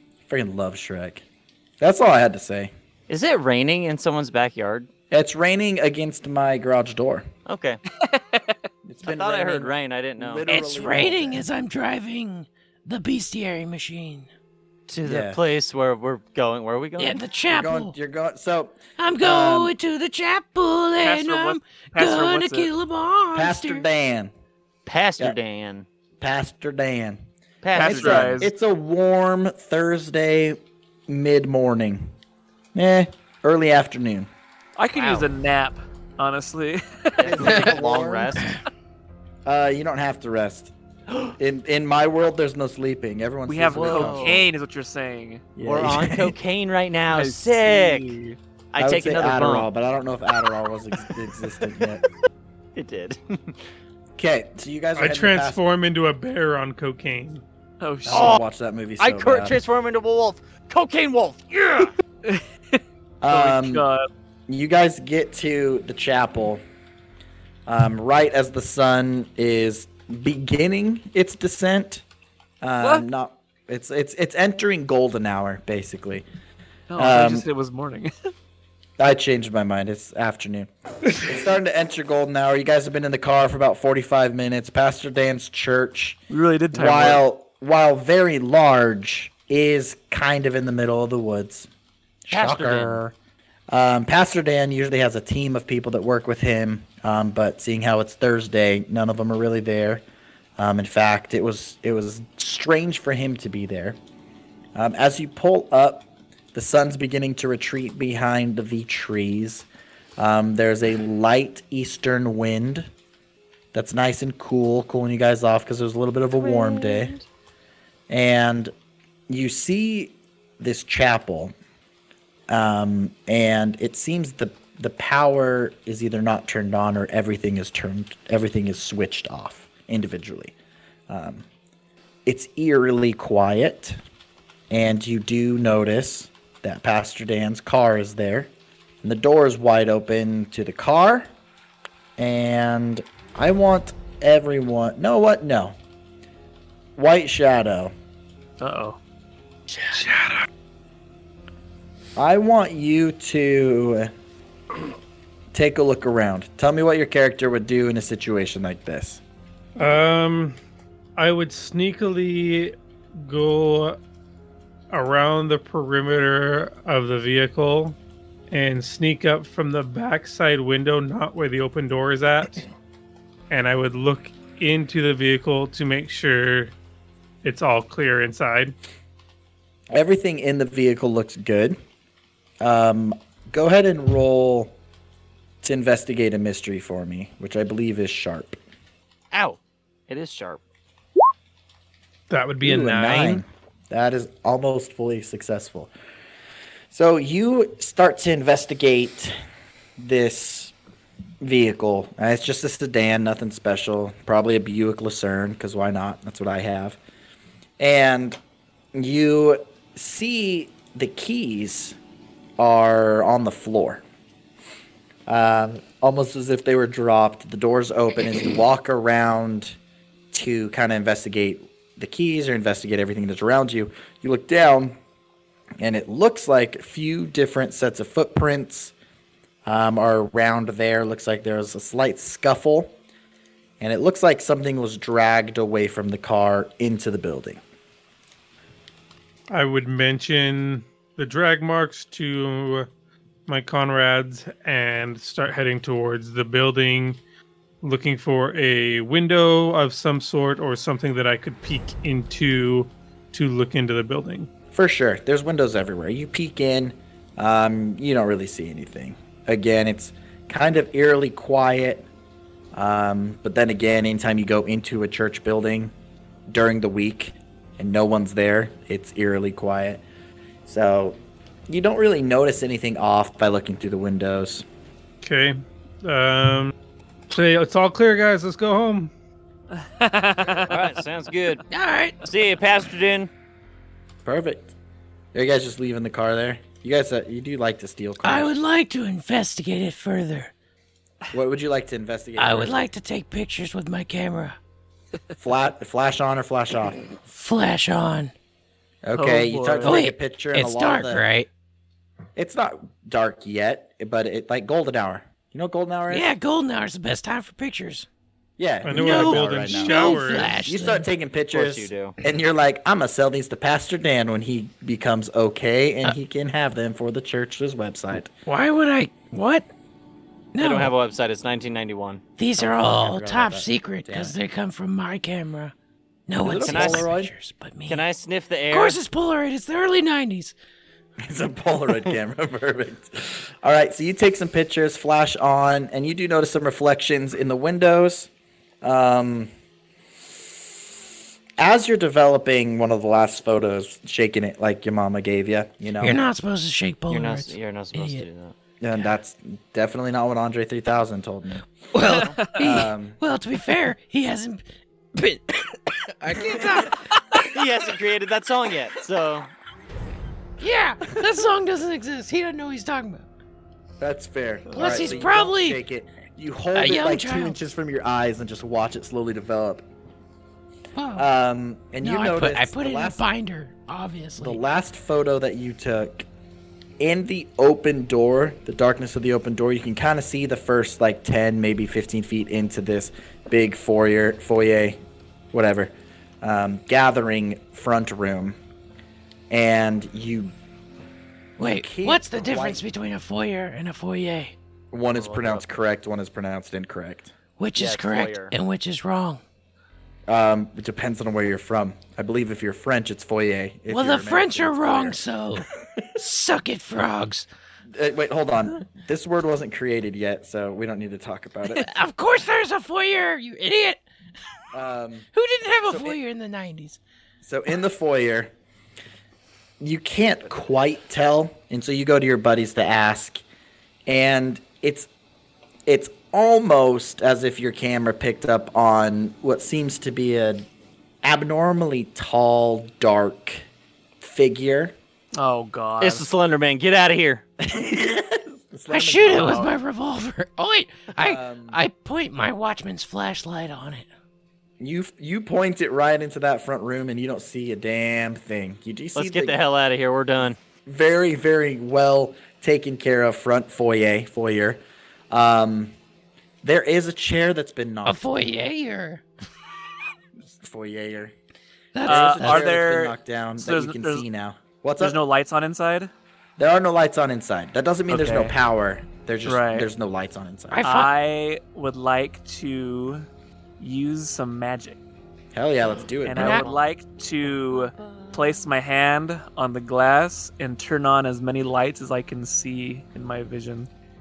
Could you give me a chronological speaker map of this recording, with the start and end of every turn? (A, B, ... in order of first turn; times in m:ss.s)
0:00.3-0:01.2 A
0:01.8-0:02.7 A
0:03.1-0:04.9 B
0:05.1-0:07.3 A
0:07.4-0:07.8 B
0:08.0-0:08.6 C
0:08.8-0:11.4 A
0:09.0-0:10.4 B
0:10.5-0:14.3 D
0:14.9-0:17.2 B
0:15.0-0:15.4 A
0:17.0-0:17.9 D
0:17.5-0:19.7 A
0:19.0-0:23.8 D
0:21.0-0:22.7 C
0:23.3-0:24.3 A
0:24.8-0:25.8 B
0:26.2-0:27.2 A
0:27.6-0:28.4 B
0:27.7-0:32.1 A
0:27.7-0:28.5 C
0:32.7-0:34.3 A
0:34.8-0:37.5 C
0:34.9-0:35.3 B
0:37.2-0:38.6 B
0:37.2-0:38.4 A
0:39.4-0:40.7 A
0:41.4-0:44.4 A
0:43.5-0:45.4 C
0:43.7-0:44.4 B
0:45.6-0:46.3 A
0:45.6-0:48.1 B
0:47.1-0:48.4 C
0:48.7-0:49.7 B
0:48.8-0:52.0 A
0:52.8-0:53.5 B
0:54.2-0:55.6 A
0:55.0-0:57.4 E
0:57.8-0:58.4 C
0:58.0-0:59.6 A
0:58.1-0:58.4 B
0:59.0-1:01.9 B
1:02.2-1:04.1 C
1:03.2-1:03.9 A
1:04.5-1:06.6 A
1:07.7-1:12.0 A
1:12.6-1:16.2 A
1:16.9-1:18.3 C
1:17.0-1:17.5 A
1:19.0-1:26.2 A
1:26.3-1:27.2 C
1:26.7-1:31.7 A
1:32.3-1:33.1 A
1:32.3-1:33.0 B
1:33.7-1:40.0 A
1:40.6-1:44.0 A
1:44.7-1:52.9 A
1:53.7-1:57.1 A
1:56.3-1:57.2 B
1:58.1-1:58.7 A
1:59.3-2:01.5 A
2:02.5-2:10.5 A
2:11.1-2:11.4 A
2:12.2-2:14.0 A
2:14.7-2:18.5 A
2:19.0-2:21.3 A
2:22.2-2:25.8 A
2:27.0-2:27.9 A
2:28.6-2:29.0 C
2:30.1-2:30.3 C
2:32.2-2:34.1 A
2:35.5-2:39.2 A
2:39.8-2:40.6 E
2:41.2-2:44.0 E
2:44.9-2:48.0 E
2:48.5-2:52.6 E
2:53.5-2:56.7 E
2:57.4-2:58.7 E
2:59.9-3:01.8 A
3:02.6-3:04.7 A
3:05.6-3:08.6 A
3:09.3-3:10.6 B
3:12.3-3:13.4 E
3:12.6-3:15.9 A
3:16.9-3:19.3 A
3:20.0-3:20.7 A
3:21.4-3:27.0 A
3:27.8-3:28.4 A
3:28.9-3:32.0 A
3:32.6-3:34.0 A
3:35.3-3:39.8 A
3:40.3-3:45.0 A
3:45.8-3:48.9 A
3:49.6-3:52.9 A
3:53.8-3:57.6 A
3:59.5-4:02.9 E
4:03.5-4:07.2 E
4:07.8-4:14.5 E
4:14.7-4:22.1 A
4:22.7-4:25.9 A
4:26.5-4:30.0 A
4:30.6-4:31.2 A
4:31.7-4:34.6 A
4:35.2-4:36.7 E
4:37.3-4:39.1 E
4:39.7-4:40.9 C
4:40.6-4:41.6 B
4:41.7-4:42.2 D
4:42.2-4:43.3 B
4:44.2-4:44.7 A
4:45.3-4:48.5 A
4:48.2-4:50.5 D
4:51.3-4:52.9 A
4:52.4-4:54.6 D
4:55.4-4:57.0 A
4:57.3-4:58.3 D
4:59.0-5:01.2 A
4:59.2-5:00.0 C
4:59.8-5:01.5 D
5:02.4-5:06.3 A
5:06.1-5:08.1 D
5:08.6-5:18.3 A
5:08.8-5:10.6 E
5:08.9-5:11.1 D
5:11.5-5:12.2 B
5:18.4-5:19.7 D
5:20.5-5:20.9 D
5:20.6-5:22.2 B
5:22.4-5:25.7 D
5:22.6-5:24.3 A
5:26.3-5:28.0 D
5:26.4-5:27.3 A
5:26.6-5:27.1 B
5:27.9-5:29.0 B
5:28.7-5:30.5 D
5:31.2-5:38.3 A
5:38.8-5:39.5 A
5:41.6-5:46.2 A
5:46.0-5:48.2 D
5:47.1-5:48.5 B
5:48.8-5:51.6 A
5:51.9-5:54.6 D
5:52.0-5:52.8 C
5:52.1-5:52.4 B
5:52.6-5:53.2 A
5:55.1-5:57.0 D
5:57.4-5:59.5 B
6:00.6-6:03.2 D
6:04.0-6:09.8 A
6:04.7-6:05.2 B
6:04.7-6:05.8 D
6:06.7-6:07.6 D
6:10.9-6:11.2 D
6:11.2-6:13.2 A
6:12.0-6:14.6 D
6:14.4-6:16.2 A
6:17.0-6:25.0 A
6:25.5-6:28.6 A
6:29.5-6:30.5 A
6:31.6-6:34.5 D
6:31.6-6:32.8 A
6:34.9-6:37.3 A
6:35.1-6:35.6 B
6:37.6-6:39.4 D
6:37.7-6:38.5 B
6:40.3-6:45.2 A
6:43.9-6:47.5 D
6:47.9-6:51.9 A
6:51.7-6:54.0 D
6:54.7-6:55.3 A
6:55.3-6:57.0 D
6:55.8-6:56.2 A
6:57.4-6:58.5 A
6:59.8-7:03.4 A
7:04.1-7:05.1 A
7:05.8-7:10.6 A
7:11.2-7:13.6 A
7:14.2-7:14.9 A
7:15.4-7:16.2 C
7:16.0-7:17.4 B
7:17.6-7:19.8 A
7:18.9-7:24.0 D
7:21.2-7:21.8 A
7:24.8-7:29.6 A
7:29.1-7:30.6 B
7:30.8-7:35.9 A
7:36.6-7:38.2 A
7:38.0-7:39.2 D
7:40.5-7:41.3 A
7:41.9-7:42.7 D
7:42.0-7:45.2 A
7:42.0-7:44.2 C
7:45.0-7:46.1 C
7:46.6-7:50.8 A
7:48.1-7:48.5 C
7:49.4-7:49.9 C
7:50.7-7:51.1 D
7:50.8-7:53.3 C
7:53.8-7:55.0 C
7:55.5-7:56.7 A
7:56.2-8:03.9 C
7:56.3-7:56.7 D